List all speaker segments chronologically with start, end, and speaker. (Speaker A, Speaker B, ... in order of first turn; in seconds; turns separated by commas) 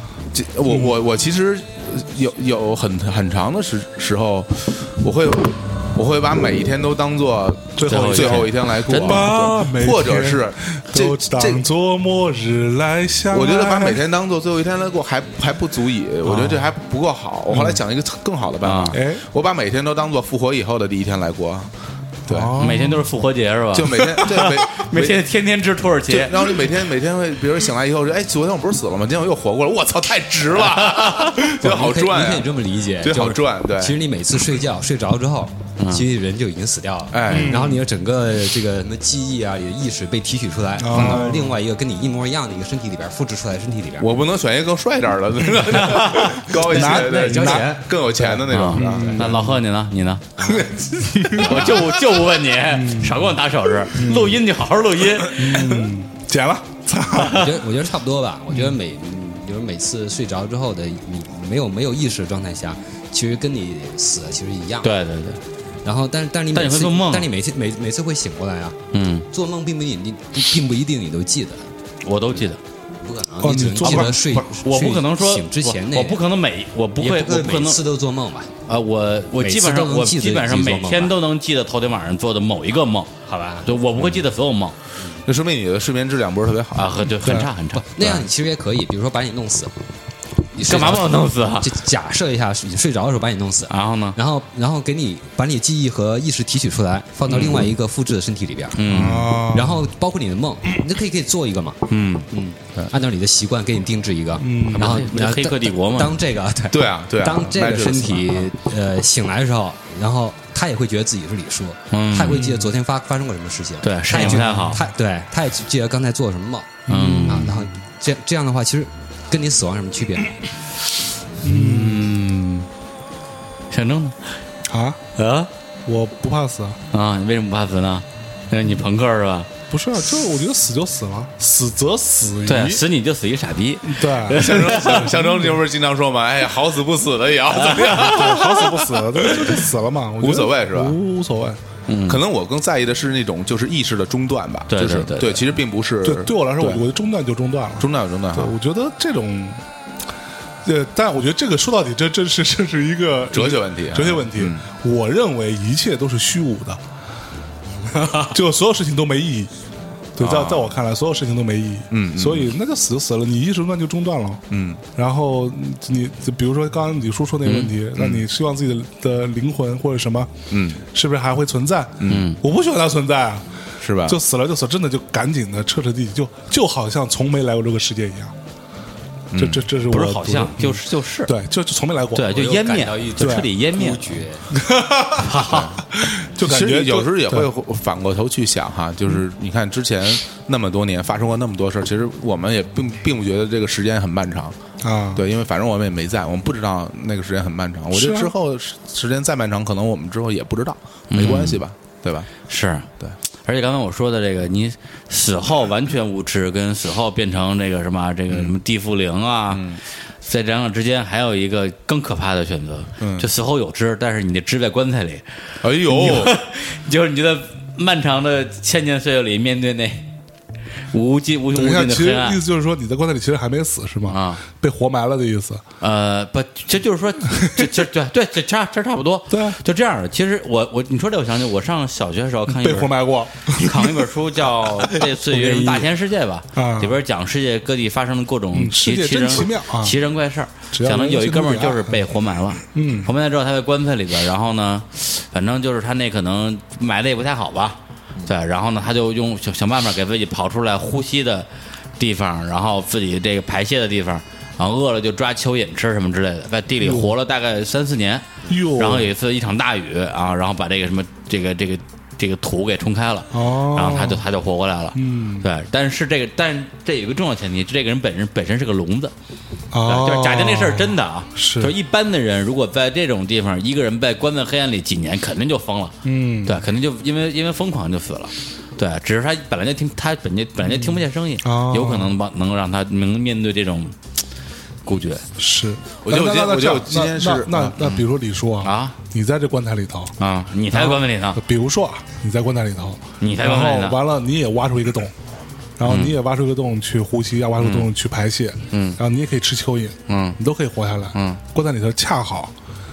Speaker A: 0.3-11.6, Speaker B: 0.7-1.0, Speaker B: 7.8-14.1, Speaker C: 7.9-9.3, Speaker A: 13.3-21.7, Speaker B: 16.2-16.6, Speaker B: 17.5-17.8, Speaker C: 18.6-19.0, Speaker B: 18.9-19.2, Speaker A: 22.3-22.6, Speaker B: 22.3-23.1, Speaker C: 22.6-26.6, Speaker A: 23.7-25.2, Speaker A: 26.1-34.0, Speaker C: 30.6-31.5, Speaker D: 31.6-44.1, Speaker C: 35.8-36.0, Speaker A: 37.1-37.8, Speaker B: 37.3-37.8, Speaker B: 40.8-41.6, Speaker A: 44.0-49.4, Speaker C: 45.8-46.4, Speaker B: 46.6-47.8, Speaker D: 46.8-48.4, Speaker C: 48.5-50.3, Speaker B: 48.7-49.6, Speaker D: 50.4-50.7, Speaker A: 50.5-51.2, Speaker B: 51.1-51.7, Speaker C: 51.3-55.8, Speaker D: 51.4-51.7, Speaker B: 52.7-53.3, Speaker B: 53.9-54.4, Speaker B: 55.3-57.5, Speaker C: 57.2-57.5, Speaker D: 57.2-64.9, Speaker C: 64.8-65.4, Speaker D: 65.8-68.8, Speaker C: 66.5-67.3, Speaker C: 68.9-69.3, Speaker D: 69.3-71.7, Speaker C: 72.0-72.6, Speaker D: 73.0-76.2, Speaker B: 73.4-74.2, Speaker C: 73.8-77.8, Speaker D: 77.0-78.5, Speaker C: 78.7-83.1, Speaker D: 79.4-81.2, Speaker D: 83.3-83.7, Speaker C: 83.7-84.8, Speaker A: 85.2-87.0, Speaker C: 86.7-88.2, Speaker B: 87.2-87.5, Speaker D: 87.7-89.7, Speaker D: 90.5-101.8, Speaker C: 90.7-91.8, Speaker C: 93.7-94.2, Speaker C: 98.8-99.4, Speaker B: 98.9-99.9, Speaker C: 101.9-102.3, Speaker D: 102.3-120.3, Speaker B: 104.4-105.0, Speaker C: 104.7-106.2, Speaker A: 106.7-108.4, Speaker C: 111.9-112.5, Speaker B: 112.3-112.7, Speaker C: 113.8-114.8, Speaker B: 114.2-114.8, Speaker C: 116.9-117.6, Speaker B: 116.9-117.4, Speaker B: 121.4-122.1, Speaker C: 121.4-122.7, Speaker C: 123.7-124.2, Speaker B: 124.7-125.0, Speaker C: 125.2-125.5, Speaker B: 125.9-126.8, Speaker C: 126.9-129.5, Speaker B: 129.7-132.8, Speaker C: 132.5-135.2, Speaker B: 133.8-135.6, Speaker A: 134.3-138.6, Speaker C: 137.5-139.6, Speaker B: 138.0-141.6, Speaker A: 140.2-141.0, Speaker C: 141.9-142.2, Speaker A: 142.1-146.8, Speaker C: 144.7-145.5, Speaker B: 146.0-149.6, Speaker A: 147.8-148.5, Speaker B: 150.7-156.8, Speaker A: 153.3-154.6, Speaker B: 158.0-159.5, Speaker B: 160.2-164.4, Speaker A: 160.2-160.8, Speaker A: 161.9-162.5, Speaker A: 164.5-164.8, Speaker B: 164.9-170.3, Speaker C: 167.4-167.7, Speaker A: 168.0-168.2, Speaker A: 170.5-170.8, Speaker B: 170.8-173.5, Speaker A: 172.0-172.3, Speaker C: 172.1-172.4, Speaker A: 173.8-174.2, Speaker B: 174.0-178.3, Speaker A: 179.3-179.6, Speaker B: 179.3-182.4, Speaker C: 179.8-181.3, Speaker C: 182.2-184.0, Speaker D: 182.3-184.6, Speaker B: 183.2-183.5, Speaker B: 184.5-187.5, Speaker C: 185.2-185.8, Speaker A: 186.4-194.6, Speaker B: 194.8-195.2, Speaker A: 195.2-202.3, Speaker B: 197.9-198.3, Speaker C: 201.1-201.6, Speaker C: 202.5-202.9, Speaker C: 203.4-215.2, Speaker A: 208.3-208.6, Speaker A: 209.5-209.8, Speaker A: 213.0-213.3, Speaker A: 215.6-216.3, Speaker C: 215.9-220.1, Speaker C: 220.9-222.4, Speaker B: 221.5-225.6, Speaker C: 224.1-224.4, Speaker C: 225.8-251.5, Speaker B: 227.4-227.7, Speaker B: 229.3-229.6, Speaker B: 232.5-235.9, Speaker B: 236.6-237.0, Speaker B: 238.5-240.0, Speaker B: 240.7-242.1, Speaker B: 242.7-243.1, Speaker C: 252.0-269.1, Speaker B: 256.8-257.2, Speaker B: 258.5-259.1, Speaker B: 263.3-264.2, Speaker B: 264.9-265.5, Speaker B: 269.7-271.7, Speaker C: 269.9-283.9, Speaker B: 276.1-276.6, Speaker B: 280.7-282.2, Speaker C: 284.9-285.2, Speaker B: 285.4-290.1, Speaker A: 286.1-287.8, Speaker C: 287.8-288.1, Speaker C: 288.6-289.0, Speaker C: 290.2-291.4, Speaker B: 290.7-295.1, Speaker C: 293.2-294.0, Speaker B: 295.8-302.5, Speaker C: 295.9-296.2, Speaker C: 297.6-297.9, Speaker C: 298.7-299.0, Speaker C: 300.1-300.4, Speaker C: 301.1-301.4